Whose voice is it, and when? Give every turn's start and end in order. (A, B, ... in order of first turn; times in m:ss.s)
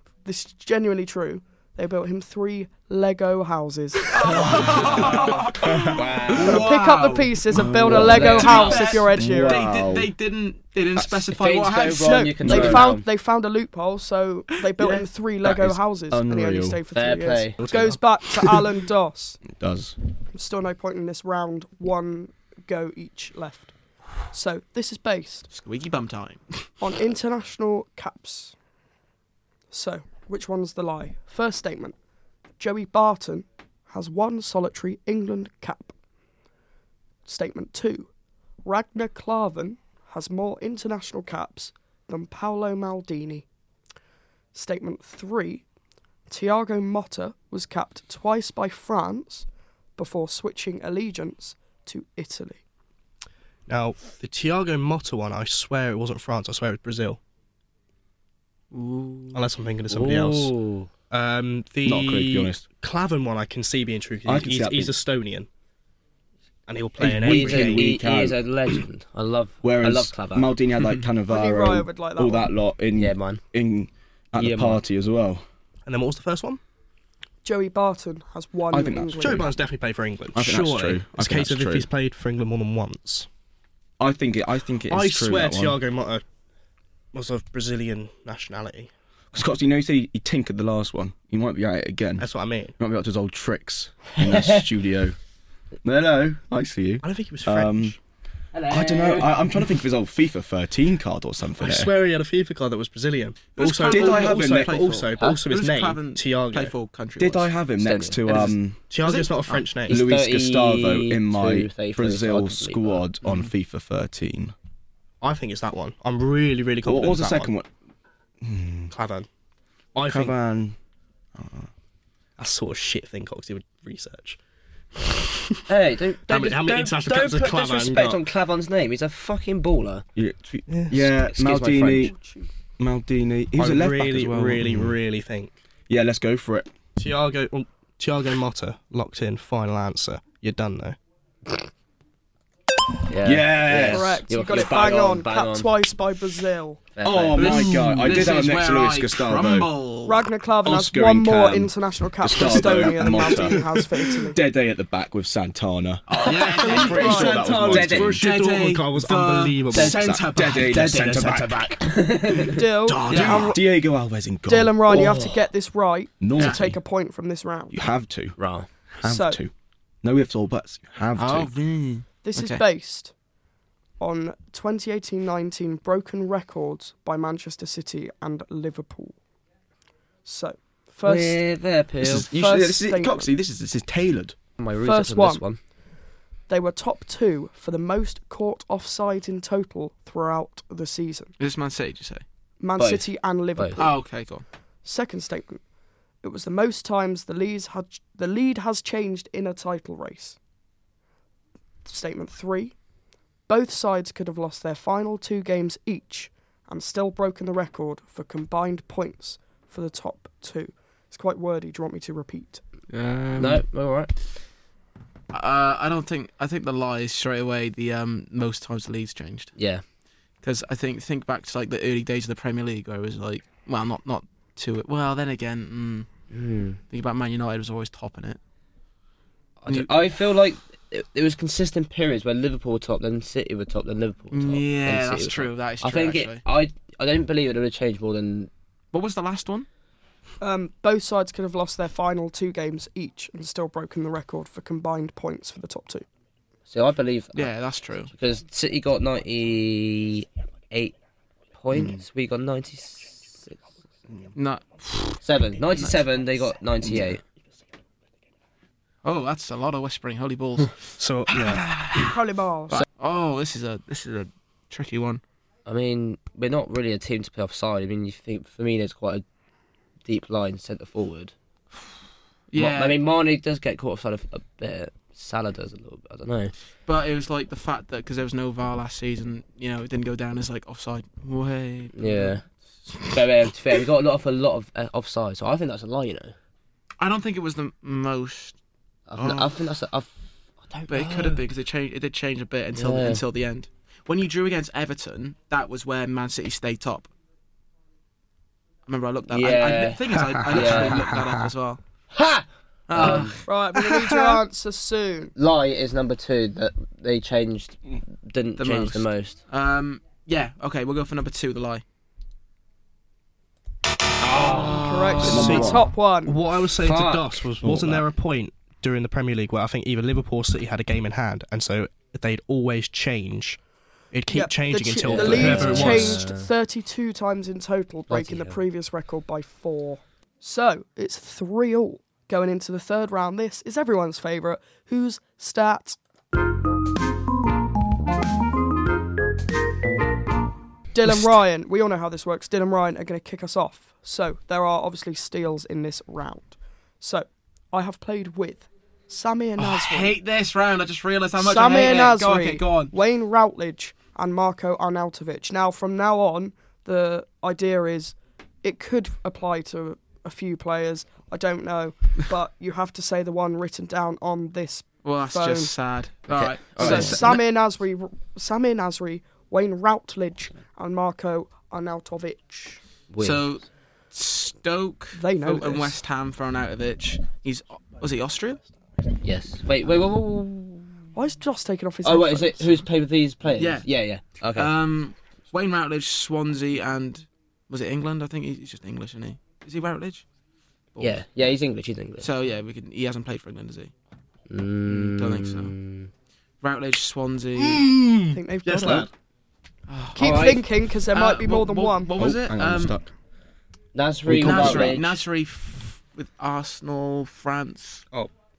0:00.2-0:05.4 A
0:04.1-0:12.3 B
0:04.4-0:06.4 C
0:05.9-0:06.7 D
0:06.4-0:09.6 A
0:07.5-0:08.5 C
0:07.9-0:09.1 D
0:09.1-0:10.1 C
0:11.3-0:13.1 D
0:12.0-0:19.4 A
0:12.4-0:12.9 C
0:14.8-0:15.0 B
0:15.4-0:16.8 C
0:16.9-0:17.6 D
0:17.6-0:18.0 E
0:19.5-0:20.0 C
0:20.3-0:23.7 A
0:24.2-0:25.5 A
0:25.5-0:26.7 B
0:26.8-0:28.6 A
0:29.7-0:32.0 A
0:32.6-0:35.9 A
0:37.3-0:38.1 A
0:38.6-0:43.4 A
0:44.5-0:45.6 A
0:46.3-0:52.6 A
0:53.7-0:57.2 E
0:58.8-0:59.1 B
0:59.3-1:00.6 E
0:59.9-1:00.9 D
1:01.1-1:05.5 E
1:01.8-1:02.6 C
1:04.3-1:05.0 C
1:06.7-1:07.9 E
1:07.0-1:08.8 C
1:07.2-1:10.5 D
1:09.6-1:15.4 C
1:11.3-1:12.5 A
1:13.0-1:13.4 D
1:14.4-1:14.8 D
1:15.9-1:16.6 E
1:17.4-1:19.6 A
1:18.7-1:19.5 C
1:19.2-1:23.3 E
1:20.4-1:21.9 C
1:24.0-1:25.8 C
1:24.9-1:26.2 E
1:27.1-1:28.9 E
1:29.3-1:35.2 C
1:32.2-1:32.7 E
1:34.2-1:34.6 D
1:35.8-1:38.0 C
1:37.0-1:38.0 E
1:38.5-1:39.5 D
1:38.7-1:41.9 C
1:41.6-1:46.7 E
1:43.6-1:47.5 B
1:43.9-1:44.7 C
1:47.2-1:48.8 C
1:47.8-1:48.4 D
1:48.3-1:49.6 B
1:48.9-1:50.0 E
1:49.9-1:53.0 D
1:49.9-1:54.5 C
1:53.2-1:53.5 B
1:55.2-1:57.5 E
1:56.8-1:57.7 C
1:58.4-1:58.9 C
1:58.9-1:59.3 E
2:00.0-2:00.3 E
2:00.1-2:00.8 C
2:01.4-2:01.7 C
2:02.4-2:04.4 E
2:05.0-2:05.6 E
2:05.7-2:10.0 D
2:06.3-2:08.2 E
2:10.2-2:12.2 C
2:10.7-2:11.0 E
2:11.0-2:12.1 D
2:11.9-2:12.5 A
2:12.8-2:15.0 C
2:13.6-2:15.6 E
2:15.9-2:16.7 C
2:17.0-2:21.0 E
2:23.1-2:25.7 D
2:23.2-2:24.2 C
2:23.8-2:26.8 A
2:26.9-2:27.9 D
2:27.0-2:29.7 C
2:27.4-2:30.3 B
2:30.1-2:34.4 A
2:30.6-2:38.2 C
2:32.8-2:33.7 E
2:36.1-2:37.4 B
2:36.1-2:38.2 D
2:36.3-2:41.2 E
2:36.7-2:37.4 A
2:38.0-2:41.8 B
2:39.9-2:41.6 C
2:41.8-2:42.6 D
2:42.4-2:43.6 A
2:42.9-2:43.6 B
2:43.1-2:45.3 C
2:44.5-2:47.8 A
2:46.2-2:46.8 C
2:46.4-2:46.6 B
2:47.7-2:48.4 C
2:48.4-2:48.7 D
2:49.0-2:49.5 C
2:49.0-2:49.4 A
2:50.0-2:51.5 C
2:51.2-2:52.6 B
2:52.2-2:53.1 A
2:54.0-2:59.2 A
3:00.2-3:01.4 A
3:01.0-3:02.3 D
3:02.0-3:04.4 C
3:02.3-3:03.3 A
3:04.6-3:05.6 D
3:04.8-3:05.4 A
3:06.5-3:11.3 A
3:11.4-3:12.2 B
3:12.6-3:14.0 A
3:12.8-3:13.8 D
3:13.8-3:14.4 B
3:14.8-3:15.6 A
3:16.2-3:20.4 A
3:21.8-3:22.8 A
3:23.5-3:32.6 A
3:32.9-3:33.6 B
3:33.4-3:34.1 D
3:35.3-3:39.5 B
3:39.6-3:39.8 D
3:40.4-3:46.1 B
3:46.3-3:46.8 D
3:46.9-3:48.4 B
3:49.6-3:58.5 D
3:49.7-3:50.1 B
3:54.3-3:56.4 B
3:58.9-3:59.7 B
4:00.4-4:06.1 A
4:06.7-4:07.5 D
4:07.4-4:08.1 B
4:08.1-4:11.0 D
4:11.6-4:13.6 D
4:11.7-4:12.0 C
4:14.4-4:15.2 B
4:15.2-4:17.2 D
4:15.7-4:16.0 B
4:19.0-4:25.2 B
4:21.0-4:21.8 E
4:22.0-4:22.8 A
4:25.7-4:29.2 D
4:30.0-4:31.3 D
4:32.5-4:33.0 B
4:32.6-4:36.5 D
4:36.9-4:42.4 B
4:42.0-4:42.4 D
4:43.1-4:46.4 D
4:47.0-4:48.6 B
4:49.1-4:50.1 D
4:49.2-4:49.6 B
4:50.7-4:51.4 D
4:50.9-4:57.1 B
4:52.8-4:53.2 D
4:58.9-5:01.8 B
4:59.3-5:01.1 D
5:00.1-5:01.5 E
5:02.1-5:03.4 D
5:02.9-5:03.4 B
5:03.0-5:05.3 A
5:03.8-5:04.4 E
5:05.4-5:09.4 D
5:08.6-5:11.8 B
5:14.2-5:15.2 D
5:14.3-5:15.6 B
5:14.4-5:16.4 A
5:15.2-5:23.6 E
5:15.2-5:15.9 C
5:16.8-5:17.4 D
5:17.6-5:18.1 C
5:24.1-5:26.2 E
5:24.3-5:36.0 A
5:25.0-5:26.5 D
5:28.1-5:28.6 D
5:40.9-5:50.2 A
5:49.6-5:52.9 B
5:51.4-6:05.7 A
6:05.0-6:07.4 B
6:06.3-6:07.4 D
6:06.8-6:12.8 A
6:13.1-6:13.4 D
6:13.2-6:18.6 B
6:15.2-6:16.0 A
6:19.2-6:20.9 D
6:21.2-6:22.9 A
6:22.0-6:24.7 D
6:23.6-6:23.9 B
6:24.6-6:30.2 B
6:31.0-6:32.3 D
6:32.2-6:33.9 B
6:34.5-6:36.1 D
6:34.9-6:35.8 B
6:36.6-6:38.0 B
6:37.6-6:39.1 E
6:38.3-6:39.1 A
6:39.9-6:43.0 B
6:40.2-6:42.1 A
6:40.2-6:40.6 D
6:42.2-6:43.1 C
6:43.9-6:45.1 D
6:44.3-6:45.1 C
6:44.4-6:48.0 B